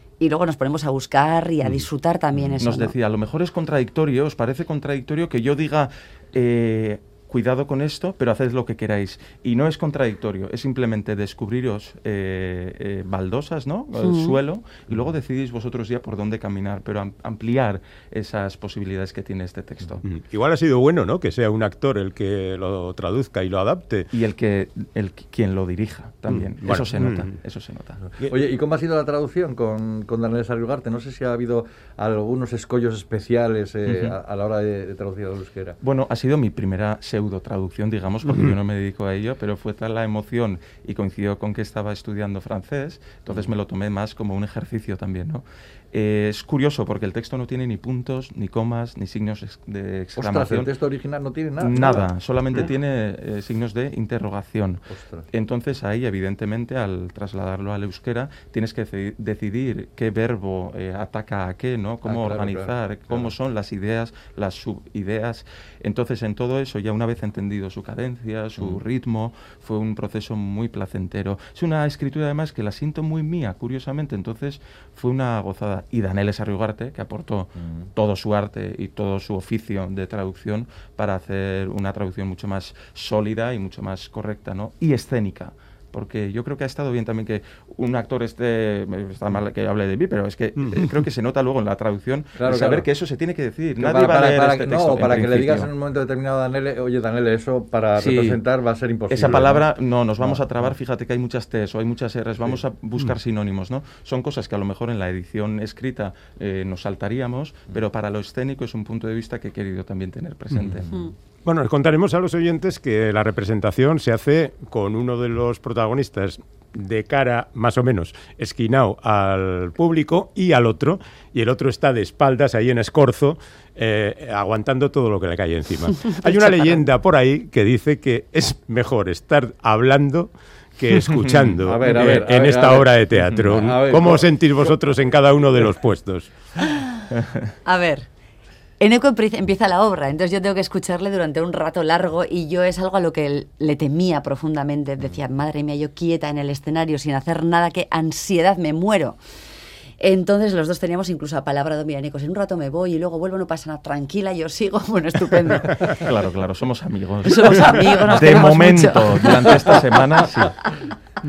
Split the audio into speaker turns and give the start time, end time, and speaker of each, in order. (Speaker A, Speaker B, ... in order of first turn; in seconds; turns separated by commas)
Speaker A: 0.2-2.9, Speaker B: 2.5-20.0, Speaker A: 14.0-14.4, Speaker C: 20.0-24.1, Speaker B: 24.1-28.1, Speaker C: 26.3-27.3, Speaker D: 28.2-35.8, Speaker B: 35.8-50.7, Speaker D: 50.2-52.1, Speaker B: 51.6-95.7, Speaker D: 54.9-55.3, Speaker D: 62.1-63.3, Speaker D: 77.6-77.9, Speaker C: 90.6-90.9, Speaker D: 92.4-92.8, Speaker D: 93.8-99.7, Speaker B: 98.0-98.4, Speaker B: 99.1-111.0, Speaker D: 100.2-100.7, Speaker D: 110.5-110.9, Speaker C: 111.5-136.3, Speaker B: 131.1-131.5, Speaker D: 131.7-134.3, Speaker A: 137.7-138.1, Speaker A: 138.8-149.2, Speaker A: 150.0-156.1, Speaker B: 155.8-160.6, Speaker A: 157.2-160.2